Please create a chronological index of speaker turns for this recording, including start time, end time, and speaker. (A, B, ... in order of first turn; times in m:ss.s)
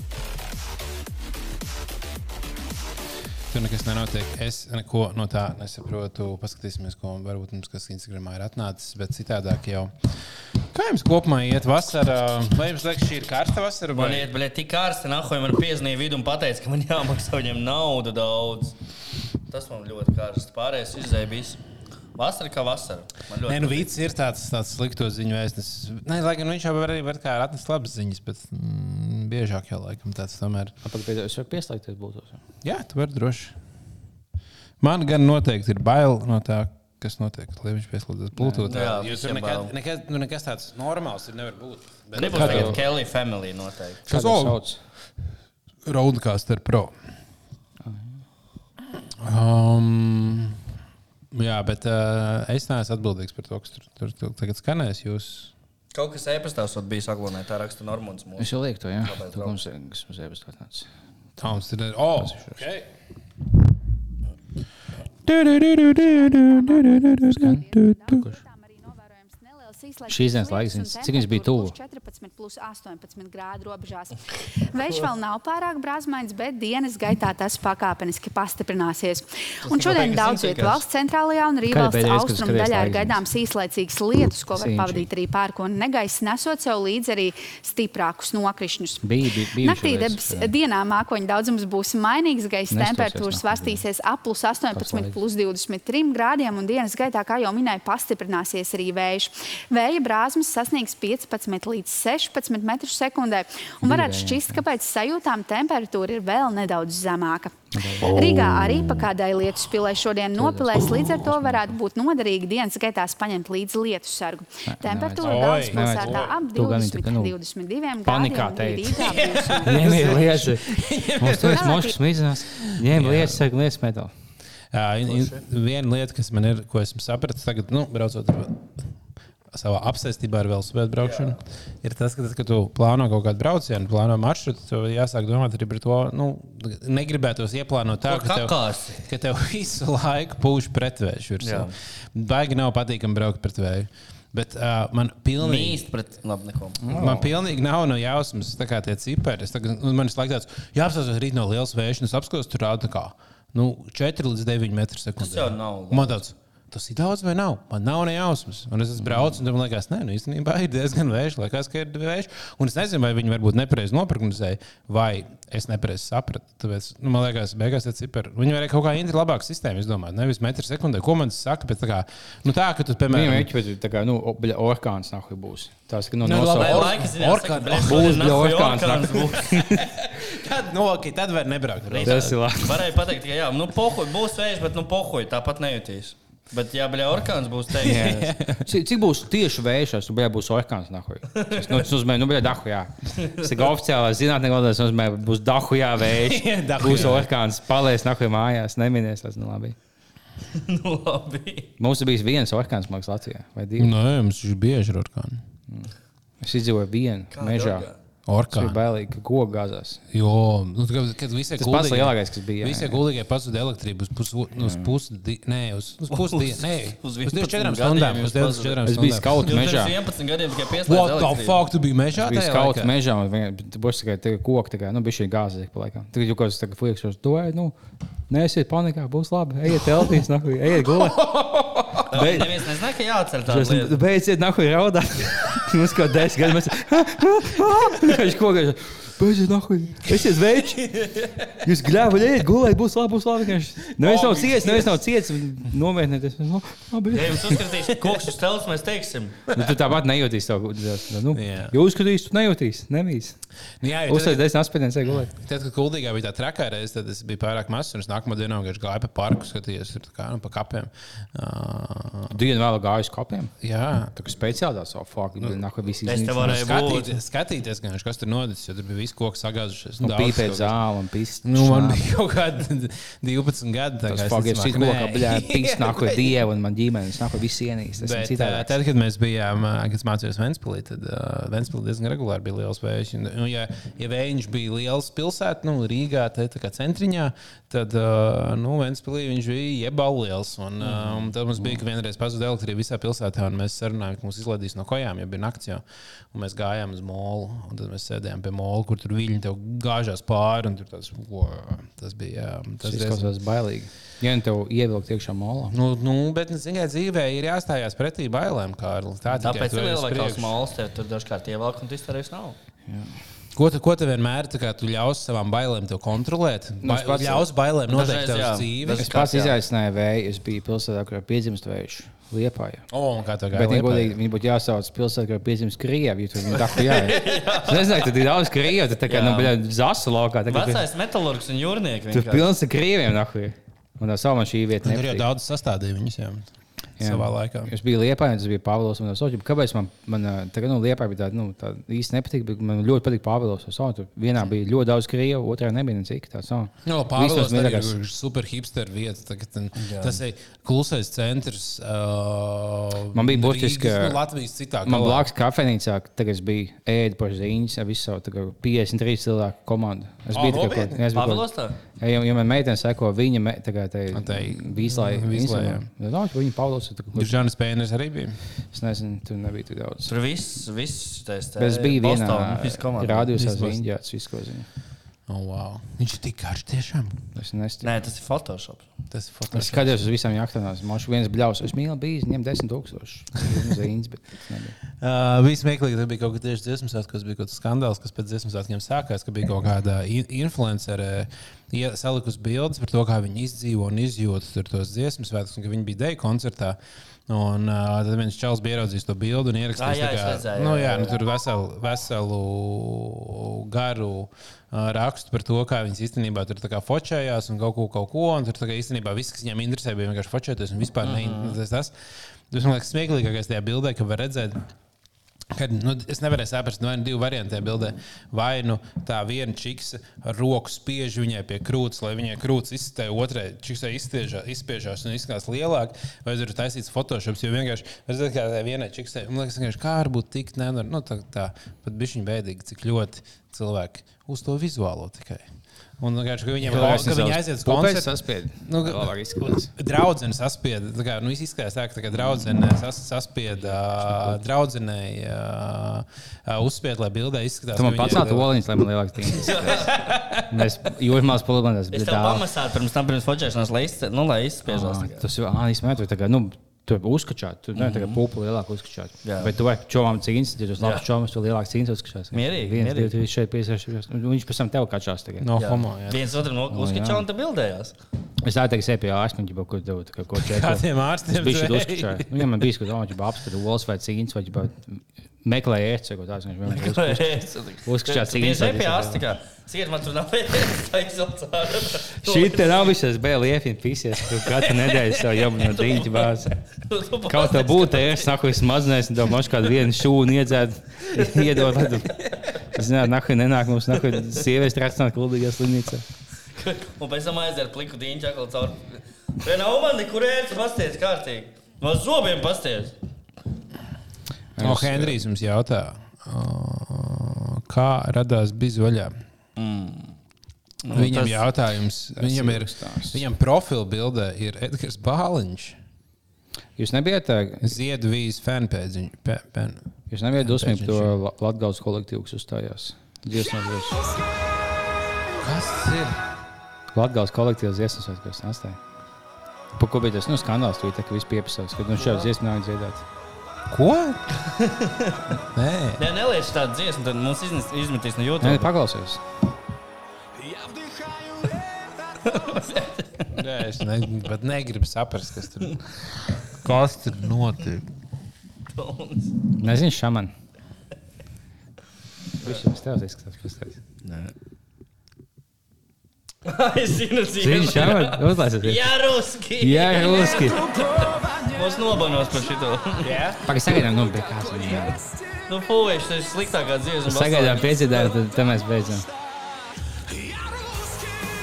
0:03.5-0:10.1 A
0:10.7-0:14.3 A
0:13.9-0:18.7 B
0:19.5-0:21.6 B
0:22.2-0:23.9 B
0:23.5-0:30.7 A
0:30.8-0:32.4 C
0:32.6-0:33.5 A
0:34.8-0:42.8 A
0:38.4-0:38.7 C
0:38.7-0:39.7 B
0:42.2-0:44.0 B
0:42.2-0:42.8 C
0:44.1-0:44.8 C
0:44.1-0:44.7 A
0:45.8-0:46.9 A
0:47.8-0:48.2 C
0:49.2-0:50.6 A
0:51.3-0:55.5 A
0:55.9-0:59.6 B
0:58.4-1:00.9 C
1:01.4-1:02.9 A
1:02.2-1:02.6 C
1:05.2-1:08.2 A
1:06.0-1:29.0 D
1:07.3-1:08.4 C
1:10.1-1:11.8 C
1:19.6-1:20.8 B
1:21.7-1:23.2 C
1:24.5-1:25.1 C
1:29.0-1:30.5 C
1:29.6-2:00.1 D
1:32.7-1:33.8 C
1:34.7-1:35.2 C
1:43.8-1:44.6 C
1:47.7-1:48.2 C
1:48.1-1:48.7 A
1:50.4-1:51.8 C
1:54.6-1:57.3 C
1:55.2-1:56.3 A
1:58.0-2:04.1 C
1:59.0-2:02.0 A
2:01.5-2:01.9 D
2:02.5-2:03.4 A
2:04.7-2:08.8 A
2:05.0-2:05.4 B
2:09.5-2:25.8 A
2:11.0-2:11.4 B
2:18.1-2:19.0 B
2:21.4-2:21.7 B
2:25.4-2:27.0 B
2:26.8-2:27.3 C
2:26.9-2:53.5 A
2:35.2-2:36.2 B
2:39.0-2:39.4 C
2:53.1-2:56.9 C
2:56.2-2:58.8 A
2:56.5-2:59.7 B
2:57.7-2:59.9 C
3:00.0-3:02.4 A
3:01.9-3:08.2 B
3:02.0-3:02.9 C
3:07.8-3:08.6 A
3:07.8-3:19.8 C
3:11.3-3:11.6 B
3:16.1-3:17.3 A
3:20.5-3:21.7 B
3:21.8-3:23.9 C
3:23.8-3:25.4 A
3:25.7-3:27.9 C
3:27.3-3:27.9 B
3:28.3-3:28.8 A
3:28.5-3:30.0 C
3:30.1-3:39.6 A
3:31.6-3:33.0 C
3:34.6-3:34.9 C
3:36.1-3:38.8 B
3:38.8-3:39.9 C
3:39.4-3:41.6 B
3:40.8-3:42.9 A
3:42.1-3:47.8 C
3:48.3-3:52.7 C
3:52.1-3:54.0 B
3:53.4-4:00.9 C
4:00.8-4:01.5 A
4:01.6-4:07.6 C
4:04.0-4:05.0 A
4:07.1-4:09.4 B
4:09.5-4:13.4 C
4:11.3-4:11.8 A
4:13.8-4:14.5 A
4:14.0-4:15.3 C
4:15.0-4:22.4 A
4:22.3-4:23.5 C
4:23.6-4:24.2 A
4:24.1-4:26.7 C
4:26.0-4:27.1 B
4:26.4-4:30.8 A
4:30.0-4:32.1 C
4:31.4-4:36.3 A
4:34.1-4:38.7 C
4:38.0-5:03.3 A
4:50.8-4:51.8 C
5:02.8-5:05.7 C
5:05.7-5:10.5 A
5:09.4-5:12.6 B
5:12.9-5:13.2 C
5:13.5-5:19.1 A
5:16.8-5:17.5 C
5:17.9-5:19.6 B
5:18.9-5:22.9 C
5:22.9-5:24.2 A
5:23.5-5:30.8 C
5:26.7-5:28.2 B
5:29.1-5:29.5 B
5:30.5-5:32.5 B
5:32.1-5:35.3 C
5:34.8-5:36.4 A
5:37.0-5:37.7 A
5:37.0-5:48.0 C
5:46.8-5:55.3 A
5:49.8-5:50.2 B
5:53.1-5:54.2 C
5:54.8-6:07.4 C
6:00.3-6:01.0 A
6:01.1-6:01.8 B
6:04.1-6:05.8 A
6:07.1-6:08.4 A
6:08.7-6:10.1 C
6:10.0-6:13.3 B
6:11.6-6:14.7 C
6:13.4-6:13.8 A
6:15.3-6:17.2 A
6:17.4-6:17.9 C
6:17.8-6:18.8 B
6:19.1-6:20.0 A
6:19.5-6:24.8 C
6:25.0-6:51.9 A
6:39.8-6:41.1 B
6:51.0-6:51.6 B
6:52.5-6:54.6 A
6:55.5-7:15.5 A
7:16.0-7:28.5 A
7:16.6-7:19.7 C
7:23.5-7:24.4 C
7:27.7-7:32.4 C
7:29.3-7:30.2 B
7:29.9-7:30.6 A
7:31.9-7:35.2 B
7:34.7-7:45.5 C
7:37.8-7:38.2 B
7:39.2-7:39.5 B
7:40.8-7:41.0 B
7:42.3-7:43.1 B
7:45.4-7:46.3 A
7:45.6-7:47.9 B
7:46.7-7:47.2 C
7:48.4-7:59.2 C
7:50.4-7:52.5 A
7:56.7-8:02.9 B
8:02.2-8:06.6 C
8:05.6-8:08.4 B
8:07.3-8:16.0 C
8:11.1-8:11.5 B
8:14.1-8:14.4 B
8:16.5-8:23.0 B
8:24.5-8:25.2 C
8:24.6-8:29.2 A
8:29.6-8:30.1 B
8:30.8-8:31.4 B
8:30.9-8:35.8 A
8:32.1-8:33.2 C
8:36.8-8:37.8 C
8:37.6-8:41.1 A
8:40.1-8:44.1 C
8:45.3-8:46.2 A
8:46.9-8:48.8 C
8:49.8-8:53.0 C
8:52.0-8:52.3 B
8:53.7-8:54.2 A
8:54.3-8:55.4 B
8:55.5-8:56.0 A
8:56.0-8:58.7 B
8:58.4-8:59.2 C
9:02.2-9:03.4 B
9:03.3-9:07.9 A
9:08.7-9:09.4 B
9:09.6-9:10.3 C
9:12.4-9:13.8 C
9:14.0-9:14.3 B
9:16.4-9:23.2 B
9:17.4-9:18.8 C
9:19.6-9:20.7 C
9:23.0-9:23.5 A
9:23.4-9:25.0 C
9:25.4-9:28.1 B
9:27.0-9:29.0 C